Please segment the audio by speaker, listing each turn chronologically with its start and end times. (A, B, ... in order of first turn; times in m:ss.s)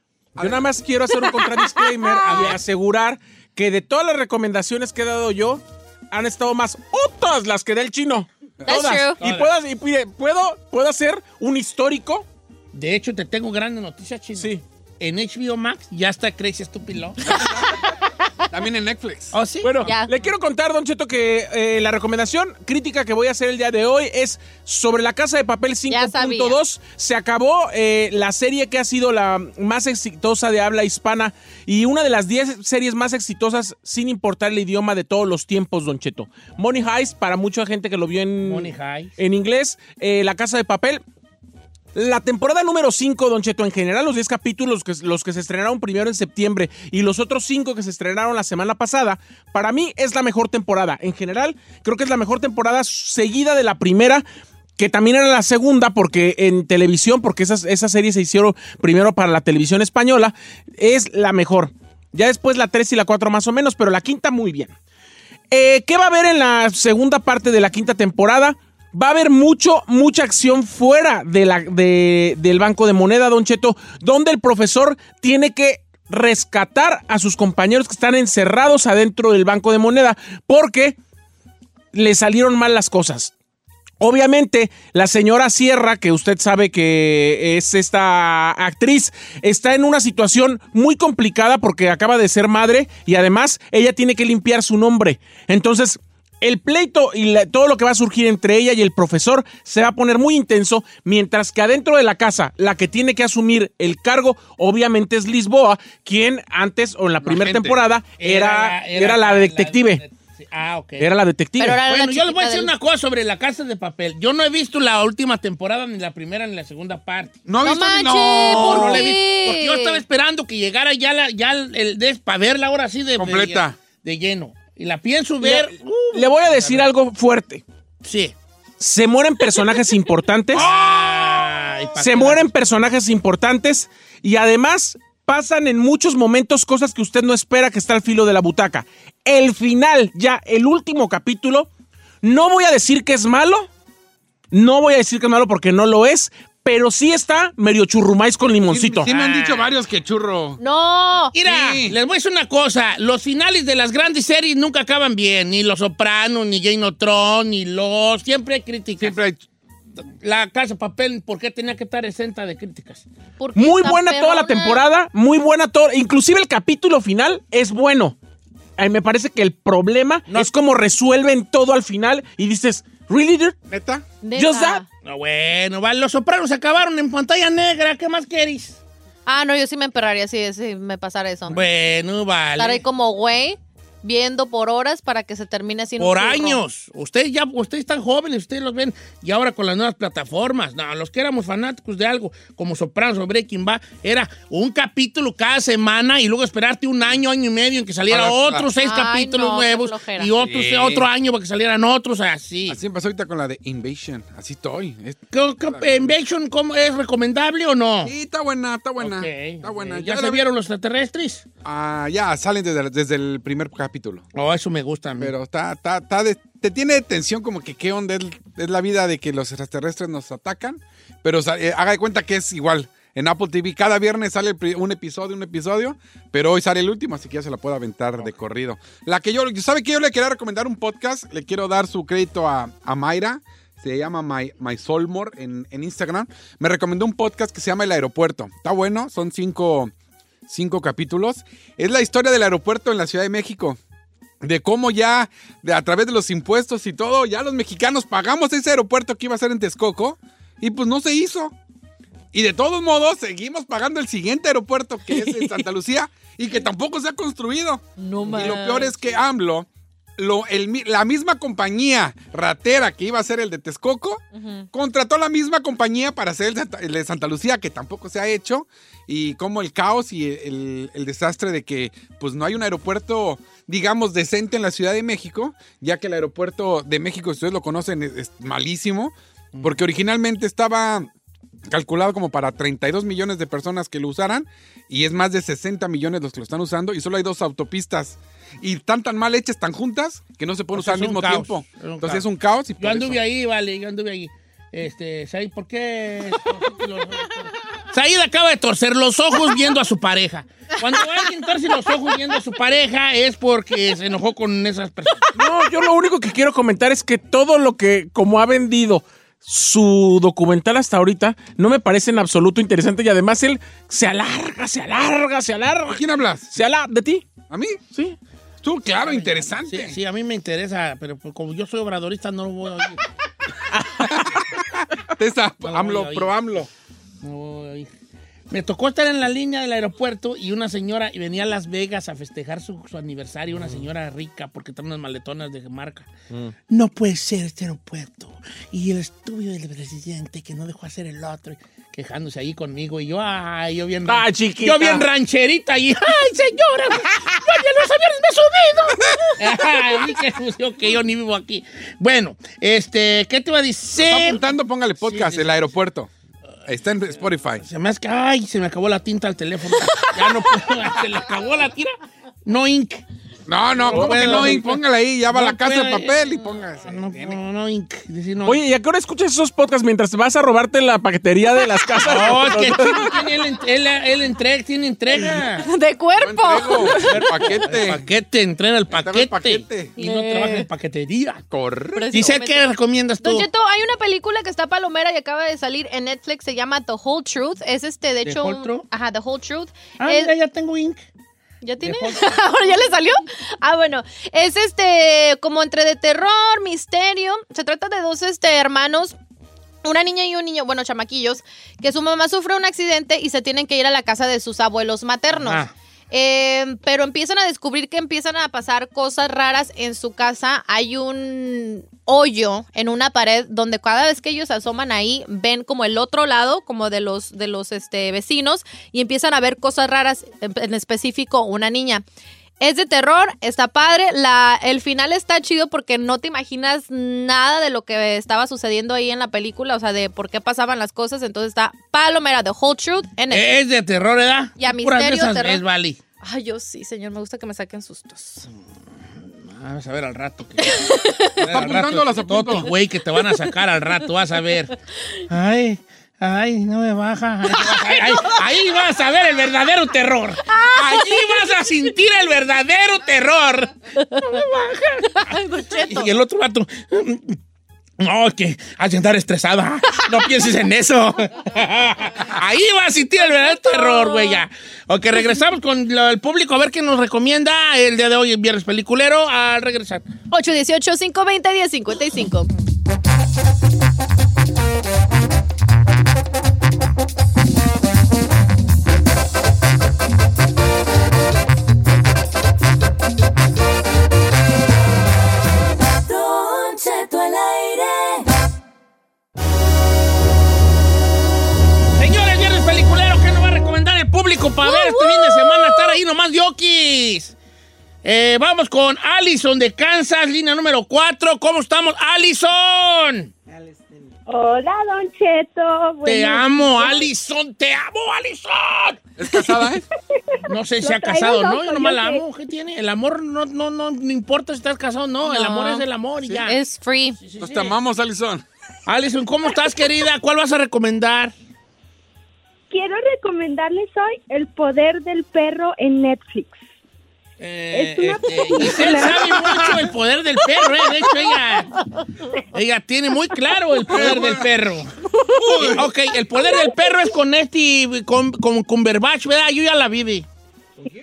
0:00.4-0:00.7 A
0:00.4-0:12.2 B
0:01.2-0:02.6 C
0:08.6-0:09.2 C
0:09.2-0:09.5 D
0:12.7-0:17.2 D
0:14.4-0:14.6 B
0:17.2-0:17.8 A
0:18.5-0:19.4 A
0:19.3-0:19.9 D
0:19.6-0:41.0 B
0:19.8-0:20.1 C
0:25.9-0:26.6 C
0:38.4-0:39.1 D
0:41.9-0:54.2 B
0:54.8-1:04.7 B
1:05.5-1:21.0 B
1:21.9-1:23.3 B
1:24.0-1:50.0 B
1:47.2-1:47.8 A
1:48.2-1:51.1 D
1:51.0-1:51.8 B
1:51.6-1:52.7 C
1:51.8-1:57.4 D
1:57.4-1:59.1 A
1:57.6-2:00.0 C
1:58.4-2:06.8 D
2:03.2-2:03.8 A
2:05.4-2:07.6 B
2:08.0-2:08.3 D
2:08.8-2:10.7 B
2:10.5-2:12.5 D
2:12.0-2:21.7 B
2:22.2-2:23.7 B
2:24.5-2:29.1 B
2:28.7-2:30.6 A
2:29.0-2:29.7 D
2:30.6-2:31.3 C
2:31.3-2:39.2 D
2:31.4-2:32.0 A
2:39.0-2:39.4 A
2:40.1-2:43.1 D
2:43.4-2:44.8 C
2:43.6-2:48.2 B
2:48.8-2:53.6 B
2:53.7-2:54.0 A
2:54.2-2:54.8 C
2:54.4-2:54.8 B
2:55.0-2:58.8 D
2:59.2-3:01.6 C
3:01.5-3:02.8 D
3:02.6-3:06.6 C
3:06.0-3:22.8 D
3:18.1-3:18.7 A
3:18.8-3:20.3 C
3:20.4-3:21.0 A
3:22.7-3:26.1 A
3:25.3-3:28.1 D
3:28.0-3:30.4 A
3:29.0-3:31.4 D
3:31.6-3:34.2 A
3:34.3-3:35.3 D
3:35.2-3:59.9 A
4:00.5-4:03.8 A
4:04.4-4:11.5 A
4:12.3-4:41.1 A
4:15.1-4:15.5 C
4:18.0-4:19.2 C
4:24.3-4:24.7 C
4:39.5-4:39.8 D
4:41.7-4:53.2 A
4:50.7-4:52.3 D
4:52.8-5:05.3 D
5:05.4-5:16.0 B
5:15.9-5:16.5 A
5:16.5-5:17.3 B
5:17.5-5:17.8 A
5:17.9-5:18.2 B
5:18.6-5:20.0 A
5:19.0-5:23.0 D
5:24.0-5:26.7 A
5:25.6-5:26.3 D
5:27.2-5:27.9 D
5:28.5-5:36.1 D
5:36.7-5:54.4 D
5:44.1-5:45.0 B
5:54.0-5:56.1 A
5:55.0-5:55.6 D
5:56.6-5:57.6 A
5:57.6-6:01.9 D
6:02.4-6:03.0 D
6:03.5-6:07.4 A
6:03.7-6:06.2 D
6:06.8-6:08.6 D
6:08.4-6:13.1 B
6:12.0-6:15.7 D
6:15.3-6:17.1 C
6:16.2-6:18.0 A
6:17.0-6:21.4 D
6:18.9-6:20.0 A
6:20.0-6:20.6 C
6:21.5-6:22.3 A
6:21.9-6:22.7 C
6:22.1-6:23.5 D
6:23.2-6:30.3 C
6:28.2-6:28.8 D
6:30.0-6:31.0 D
6:31.6-6:39.2 C
6:31.8-6:32.3 D
6:39.8-7:02.0 C
6:45.3-6:45.7 D
7:02.6-7:13.5 C
7:13.3-7:16.0 D
7:14.6-7:15.6 C
7:16.2-7:18.5 C
7:19.2-7:24.7 D
7:20.6-7:21.3 C
7:21.4-7:22.7 A
7:25.3-7:37.4 D
7:27.6-7:28.3 C
7:30.4-7:31.5 C
7:35.1-7:36.1 C
7:38.0-7:50.0 D
7:43.2-7:44.4 C
7:50.3-7:52.5 C
8:06.0-8:08.3 E
8:11.9-8:17.3 D
8:14.6-8:16.0 C
8:18.0-8:23.3 D
8:24.3-8:27.1 F
8:26.0-8:29.0 D
8:29.2-8:29.8 A
8:30.3-8:32.2 F
8:30.5-8:36.6 D
8:35.2-8:35.8 C
8:36.4-8:37.2 C
8:37.2-8:37.8 D
8:37.4-8:38.4 A
8:38.9-8:41.3 D
8:42.7-8:46.6 F
8:47.4-8:51.7 D
8:47.7-8:49.5 F
8:52.5-8:54.9 D
8:53.9-8:54.5 A
8:55.4-8:55.9 A
8:55.6-9:00.3 D